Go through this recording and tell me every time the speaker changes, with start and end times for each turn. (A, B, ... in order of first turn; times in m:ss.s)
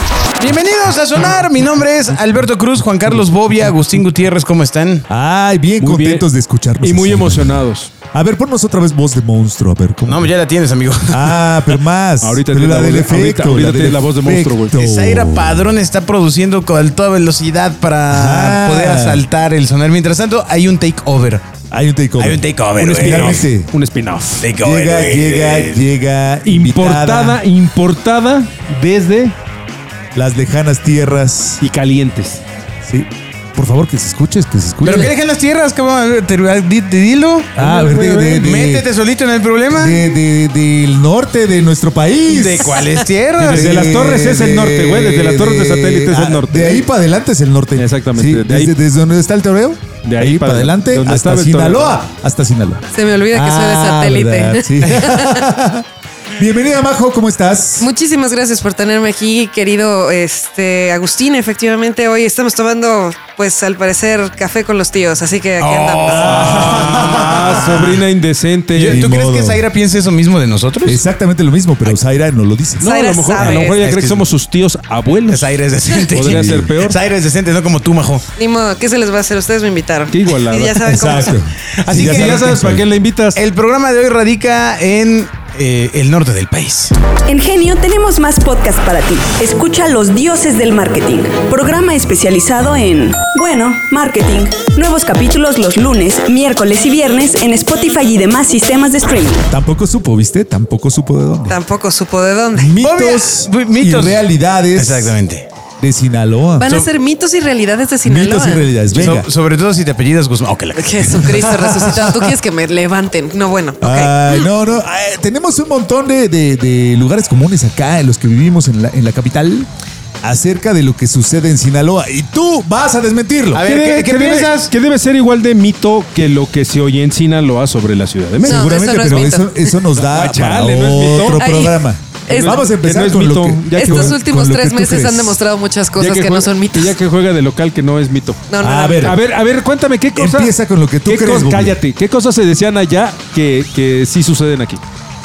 0:00.4-0:05.0 A
0:05.1-0:10.3 B
0:05.8-0:06.3 C
0:06.8-0:07.9 C
0:10.0-0:11.4 A
0:11.1-0:15.7 B
0:12.2-0:14.7 C
0:14.7-0:21.4 A
0:18.1-0:19.2 B
0:21.7-0:23.7 B
0:22.2-0:23.5 A
0:22.7-0:24.5 C
0:24.4-0:25.9 A
0:24.6-0:27.4 B
0:26.4-0:29.3 C
0:30.1-0:31.6 B
0:31.6-0:32.4 C
0:32.8-0:35.1 B
0:34.8-0:40.0 A
0:37.6-0:38.9 B
0:39.7-0:42.8 B
0:42.2-0:43.9 A
0:43.3-0:46.8 C
0:43.4-0:55.8 B
0:47.7-0:48.7 C
0:50.0-0:51.9 C
0:52.9-0:55.4 D
0:56.4-0:57.9 B
0:57.8-1:06.6 D
1:05.6-1:08.0 A
1:06.0-1:07.5 B
1:06.2-1:09.1 C
1:08.7-1:11.0 A
1:08.8-1:09.6 B
1:10.8-1:12.9 B
1:12.8-1:15.5 C
1:12.8-1:13.8 D
1:13.4-1:14.3 A
1:15.3-1:18.2 A
1:16.1-1:17.0 C
1:16.2-1:16.7 B
1:18.4-1:21.4 D
1:20.1-1:20.8 C
1:20.8-1:22.9 B
1:21.8-1:22.6 A
1:21.9-1:23.4 C
1:23.3-1:26.9 A
1:27.3-1:39.5 E
1:39.5-1:41.6 B
1:41.5-1:42.7 D
1:42.5-1:45.2 B
1:42.8-1:45.5 A
1:45.8-1:46.7 B
1:46.6-1:48.7 D
1:48.0-1:49.3 B
1:48.9-1:51.9 A
1:50.7-1:54.5 D
1:51.4-1:52.0 B
1:53.8-1:59.7 B
2:00.2-2:03.7 B
2:03.5-2:04.7 A
2:03.6-2:08.6 C
2:08.4-2:15.4 B
2:08.5-2:09.7 D
2:10.0-2:11.4 C
2:11.3-2:12.6 D
2:12.3-2:14.2 C
2:13.7-2:17.0 D
2:16.0-2:18.4 C
2:18.5-2:19.1 D
2:18.6-2:19.2 B
2:19.0-2:24.8 C
2:20.1-2:21.8 B